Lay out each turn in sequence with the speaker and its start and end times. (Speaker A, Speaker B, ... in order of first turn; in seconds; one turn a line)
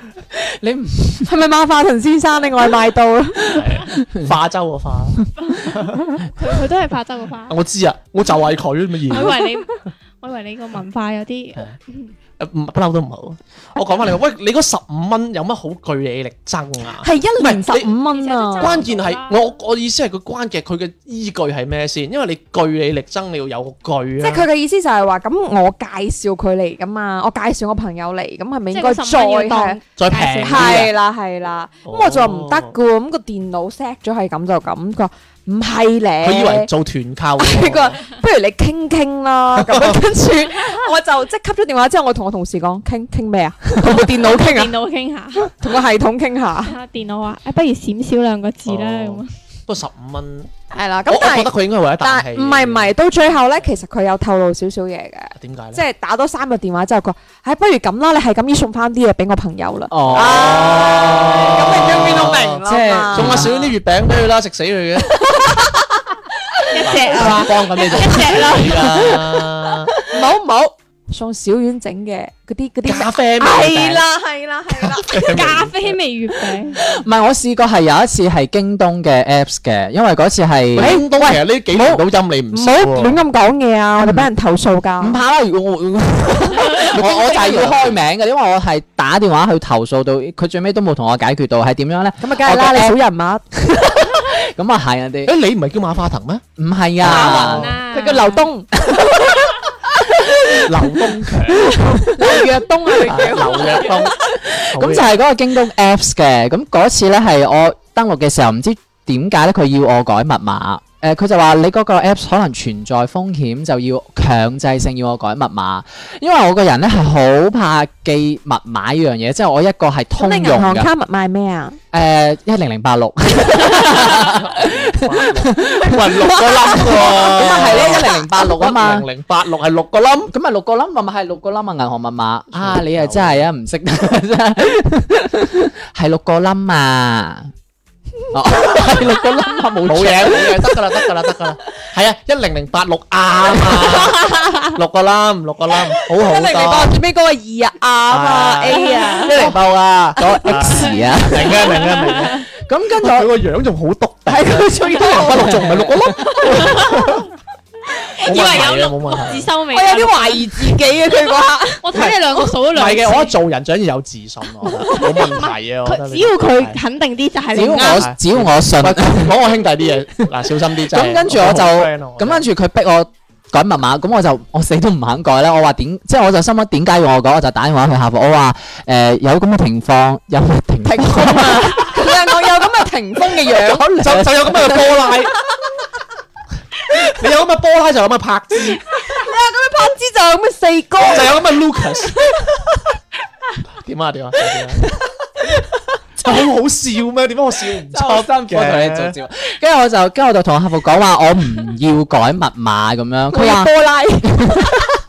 Speaker A: 0.4-1.3
Speaker B: 1.2-4.0
Speaker C: 3.5-6.0
Speaker D: 5.4-7.5
Speaker C: 7.5-9.4
Speaker D: 9.1-12.1
Speaker B: 9.1-9.4
Speaker C: 12.4-17.9
Speaker B: 17.0-18.9
Speaker D: 18.1-19.5
Speaker C: 18.6-24.5
Speaker B: 24.2-29.8
Speaker D: 28.7-30.8
Speaker C: 30.0-30.9
Speaker B: 30.4-36.7
Speaker C: 31.9-32.7
Speaker C: 36.2-38.1
Speaker B: 37.4-44.8
Speaker C: 39.6-40.0
Speaker D: 44.2-45.5
Speaker B: 45.4-46.8
Speaker D: 46.6-49.3
Speaker C: 48.7-50.5
Speaker B: 50.7-63.6
Speaker C: 51.1-52.9
Speaker C: 55.4-55.8
Speaker A: 59.9-63.6
Speaker C: 60.0-65.2
Speaker B: 65.1-65.8
Speaker D: 66.7-68.8
Speaker C: 66.8-70.0
Speaker B: 66.9-68.3
Speaker B: 68.9-69.4
Speaker A: 69.0-69.2
Speaker B: 70.0-75.5
Speaker C: 72.8-74.1
Speaker C: 74.7-75.8
Speaker D: 75.3-76.8
Speaker A: 76.8-81.0
Speaker C: 80.8-83.2
Speaker B: 80.8-85.2
Speaker A: 84.0-84.3
Speaker A: 85.0-93.0
Speaker B: 86.8-87.7
Speaker C: 87.3-88.0
Speaker B: 92.2-93.5
Speaker A: 93.7-95.3
Speaker C: 95.3-96.5
Speaker A: 96.6-97.7
Speaker C: 97.0-97.7
Speaker B: 97.1-99.5
Speaker D: 97.1-98.5
Speaker C: 100.7-101.8
Speaker B: 101.6-104.1
Speaker A: 101.9-102.4
Speaker C: 103.0-104.2
Speaker A: 104.3-120.9
Speaker C: 104.7-105.1
Speaker B: 120.2-121.8
Speaker A: 121.9-129.1
Speaker C: 123.6-130.3
Speaker B: 126.0-127.9
Speaker A: 130.3-137.5
Speaker C: 132.5-133.5
Speaker A: 138.3-140.8
Speaker C: 138.7-139.2
Speaker C: 139.8-147.0
Speaker B: 143.7-144.8
Speaker B: 145.7-149.6
Speaker C: 148.1-152.5
Speaker D: 148.8-149.3
Speaker A: 150.2-151.8
Speaker B: 150.2-150.8
Speaker D: 151.8-152.4
Speaker A: 152.5-153.3
Speaker C: 153.0-157.2
Speaker B: 154.3-156.7
Speaker A: 155.2-156.3
Speaker D: 156.5-157.1
Speaker D: 158.2-160.8
Speaker C: 158.2-159.5
Speaker B: 159.7-161.9
Speaker D: 161.8-163.4
Speaker C: 162.7-166.8
Speaker D: 164.6-168.1
Speaker A: 167.6-169.5
Speaker C: 167.6-172.5
Speaker A: 170.9-182.5
Speaker B: 180.8-185.2
Speaker A: 183.3-184.8
Speaker C: 184.0-185.3
Speaker C: 187.1-188.8
Speaker B: 188.8-191.4
Speaker C: 191.0-192.3
Speaker C: 193.8-194.9
Speaker C: 196.2-199.2
Speaker A: 197.9-203.7
Speaker B: 203.3-204.8
Speaker A: 204.2-204.8